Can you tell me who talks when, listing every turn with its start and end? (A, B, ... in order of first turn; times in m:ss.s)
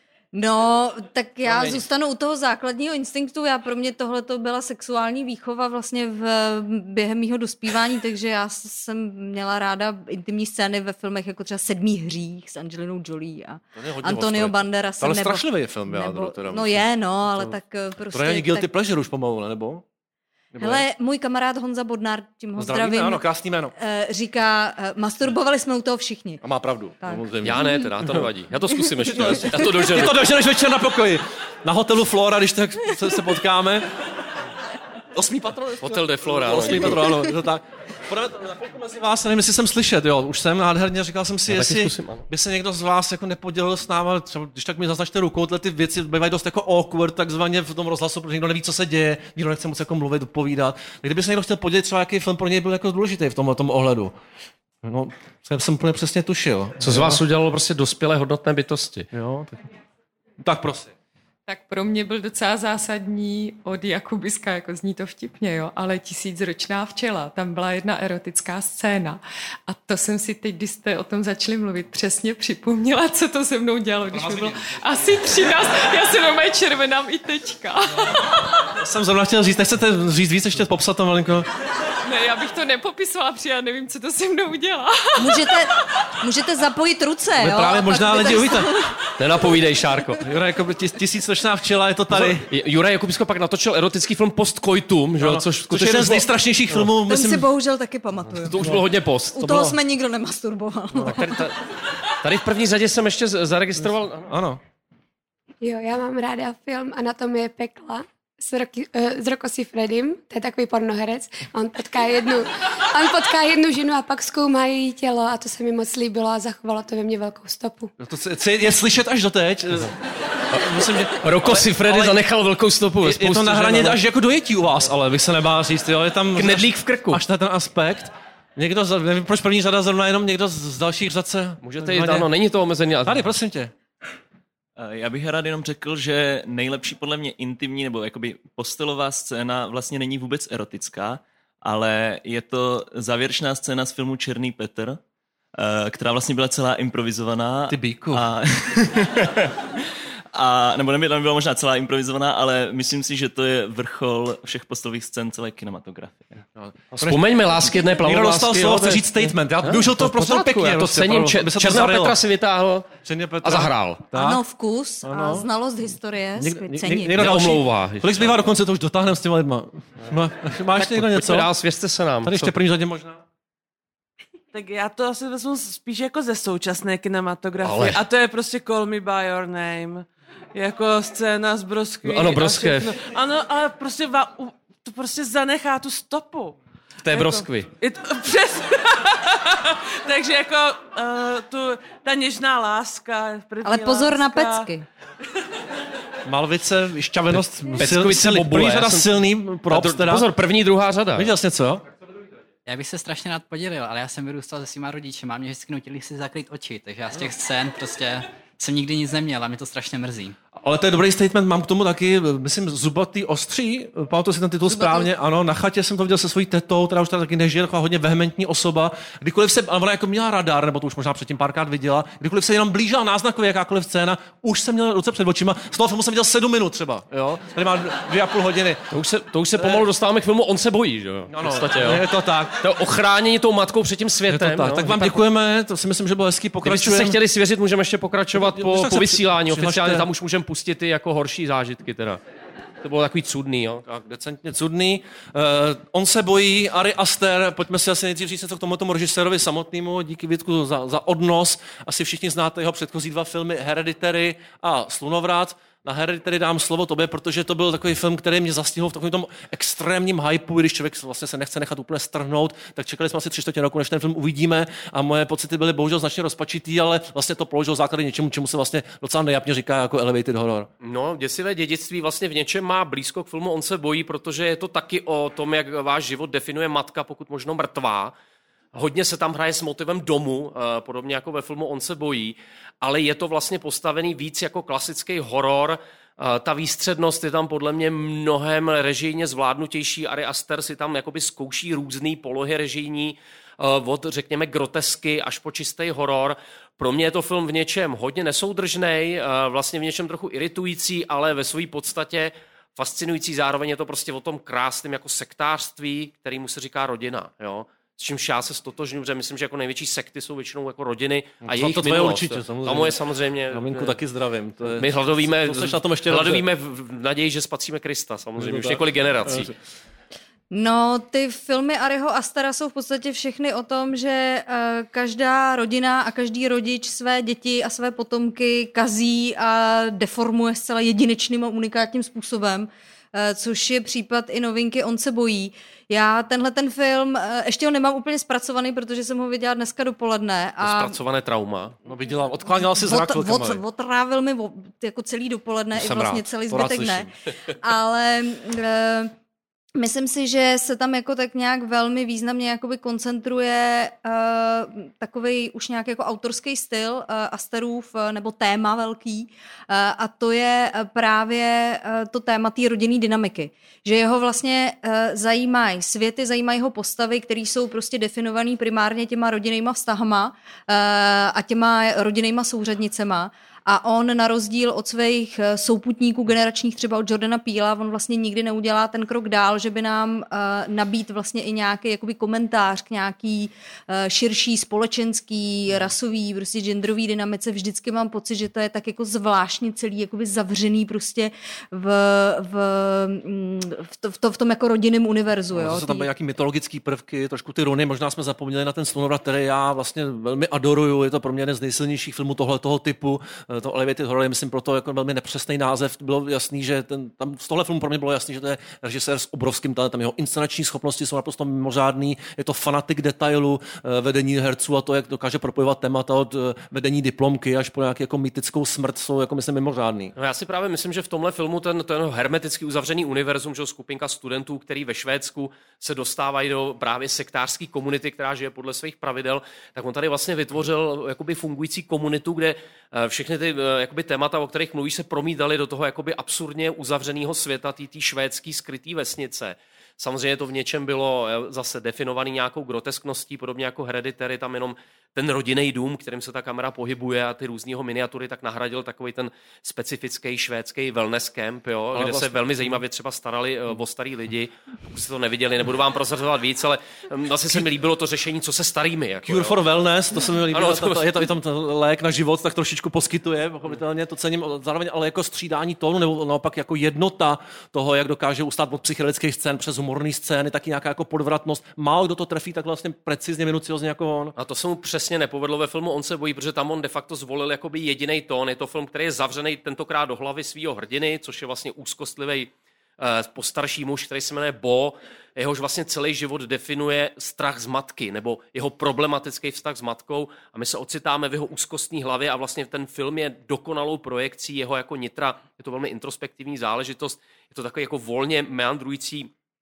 0:00.3-0:18.7 A
0:13.8-0:17.6 B
0:18.1-0:19.8 B
0:20.5-0:20.9 B
0:20.6-0:23.2 A
0:22.6-0:23.7 B
0:23.8-0:26.4 A
0:26.4-0:28.3 B
0:27.0-0:27.8 A
0:27.4-0:30.2 C
0:29.0-0:33.9 B
0:35.2-0:54.2 B
0:35.8-0:37.3 C
0:41.5-0:42.2 C
0:54.8-0:57.2 B
0:56.8-0:59.1 C
0:59.1-0:59.6 B
1:00.4-1:00.9 B
1:01.5-1:18.5 D
1:18.8-1:21.5 B
1:22.0-1:25.5 D
1:25.2-1:28.9 A
1:27.4-1:28.7 B
1:29.2-1:30.2 C
1:30.2-1:32.5 B
1:32.1-1:36.3 C
1:35.2-1:37.5 B
1:37.1-1:38.6 A
1:38.4-1:39.4 C
1:38.5-1:38.8 B
1:39.3-1:41.3 A
1:39.4-1:39.8 B
1:41.1-1:44.3 C
1:44.2-1:44.6 B
1:45.6-1:57.9 E
1:58.0-1:59.9 B
2:00.5-2:02.2 B
2:01.2-2:04.0 C
2:03.0-2:12.3 B
2:06.4-2:07.2 C
2:11.6-2:13.2 C
2:13.0-2:13.7 B
2:14.8-2:25.0 F
2:25.6-2:29.6 F
2:27.7-2:28.8 B
2:30.3-2:36.4 F
2:36.6-2:42.2 B
2:37.0-2:44.0 C
2:43.0-2:44.4 B
2:44.2-2:47.2 A
2:45.0-2:45.5 B
2:46.4-2:51.5 B
2:47.2-2:48.4 C
2:50.8-2:52.5 C
2:52.2-2:53.2 B
2:54.5-3:06.6 G
2:57.6-2:58.0 C
3:02.1-3:02.9 C
3:07.0-3:07.7 C
3:07.1-3:14.7 G
3:13.6-3:14.9 A
3:16.2-3:20.3 B
3:17.8-3:19.1 C
3:19.7-3:21.3 C
3:21.2-3:21.8 B
3:22.7-3:30.4 H
3:30.6-3:49.0 B
3:48.9-3:52.0 C
3:49.6-3:49.8 B
3:51.3-3:52.6 B
3:52.6-3:55.2 C
3:54.3-3:57.2 B
3:56.6-4:02.2 C
3:58.3-4:00.1 B
4:02.8-4:03.8 C
4:03.9-4:30.7 B
4:30.8-4:38.2 C
4:38.7-5:14.0 C
5:11.4-5:13.0 B
5:13.5-5:16.4 B
5:14.8-5:19.5 C
5:18.4-5:19.6 B
5:20.5-5:41.0 A
5:40.6-5:41.8 C
5:41.9-5:43.6 B
5:42.6-5:47.1 A
5:45.8-5:47.1 B
5:47.6-5:49.1 A
5:49.8-6:36.1 A
6:35.5-7:00.1 B
7:00.2-7:39.6 C
7:31.9-7:32.7 B
7:39.3-7:54.4 B
7:40.5-7:41.1 C
7:54.4-8:19.3 C